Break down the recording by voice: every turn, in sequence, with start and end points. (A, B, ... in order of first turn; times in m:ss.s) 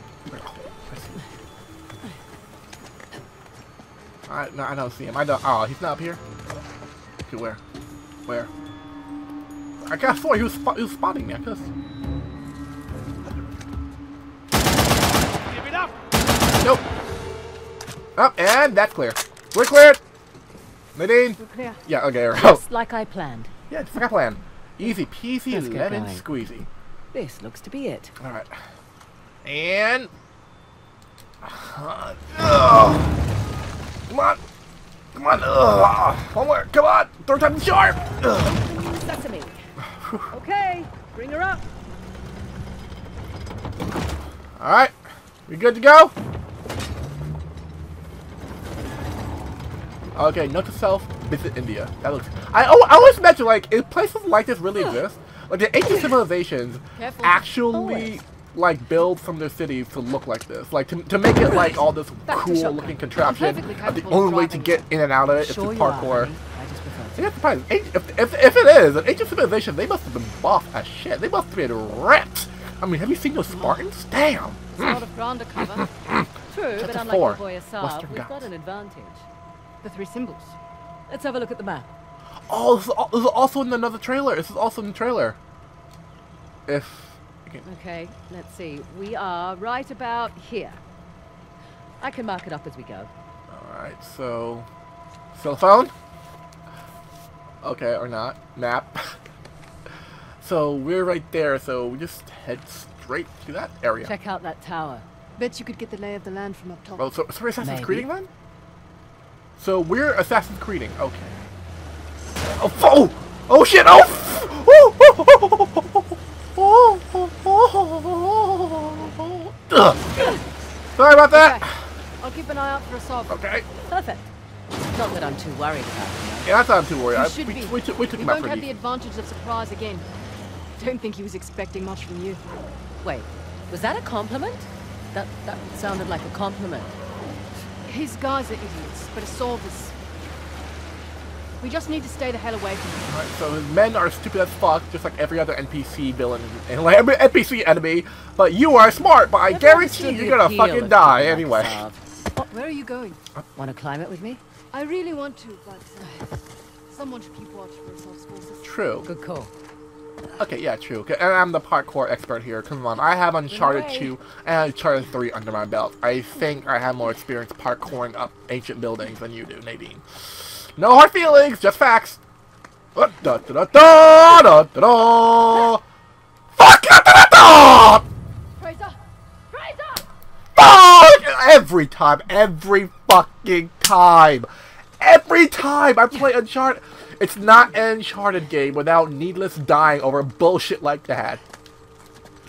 0:00.3-0:01.2 A
0:04.3-0:06.2 A
0:07.3-0:07.6 A
0:09.9-0:11.7 A
0:16.6-0:16.8 A
0:18.2-0:20.0 A
0:21.0-0:22.6 A
0:21.4-0:21.8 B
0:22.3-0:23.5 C
0:23.7-0:26.7 A
0:25.5-0:26.3 C
0:27.1-0:28.1 C
0:28.2-0:28.5 A
0:29.4-0:30.1 A
0:31.4-0:33.1 A
0:34.1-0:34.4 A
0:35.1-0:38.6 A
0:38.5-0:39.6 C
0:39.8-0:40.3 A
0:40.3-0:41.6 C
0:44.6-0:44.9 A
0:45.5-0:46.1 A
0:50.1-1:06.4 A
0:57.0-0:57.4 B
0:57.7-0:58.2 C
1:01.4-1:03.0 C
1:03.2-1:04.8 B
1:05.3-1:07.3 C
1:07.2-1:15.0 A
1:13.5-1:13.8 B
1:14.8-1:15.9 B
1:15.7-1:18.5 A
1:16.5-1:19.2 C
1:19.8-1:20.6 B
1:21.1-1:21.9 C
1:22.5-1:25.4 A
1:26.7-1:27.6 A
1:27.6-1:30.8 C
1:32.0-1:33.1 C
1:33.5-1:34.7 A
1:35.3-1:35.9 A
1:37.6-1:39.2 A
1:40.4-1:44.1 A
1:44.0-1:45.0 C
1:45.4-1:47.0 B
1:47.0-1:48.3 A
1:47.6-1:48.1 C
1:49.6-1:51.4 A
1:52.5-2:00.1 A
2:01.0-2:01.8 A
2:01.3-2:01.6 B
2:02.2-2:03.3 B
2:03.3-2:03.6 A
2:03.9-2:04.2 C
2:04.9-2:06.6 C
2:06.4-2:08.7 A
2:07.1-2:10.1 B
2:10.8-2:12.4 B
2:13.0-2:16.9 C
2:17.9-2:19.9 B
2:21.6-2:23.1 B
2:23.1-2:31.8 A
2:29.4-2:32.4 C
2:32.4-2:33.2 B
2:33.6-2:34.4 C
2:34.7-2:36.2 B
2:36.9-2:38.7 B
2:38.6-2:39.1 A
2:39.0-2:39.5 C
2:40.4-2:52.2 A
2:43.5-2:44.1 C
2:53.0-2:55.8 A
2:56.6-2:58.0 A
2:58.6-2:58.9 B
3:00.6-3:04.5 A
3:05.0-3:11.4 A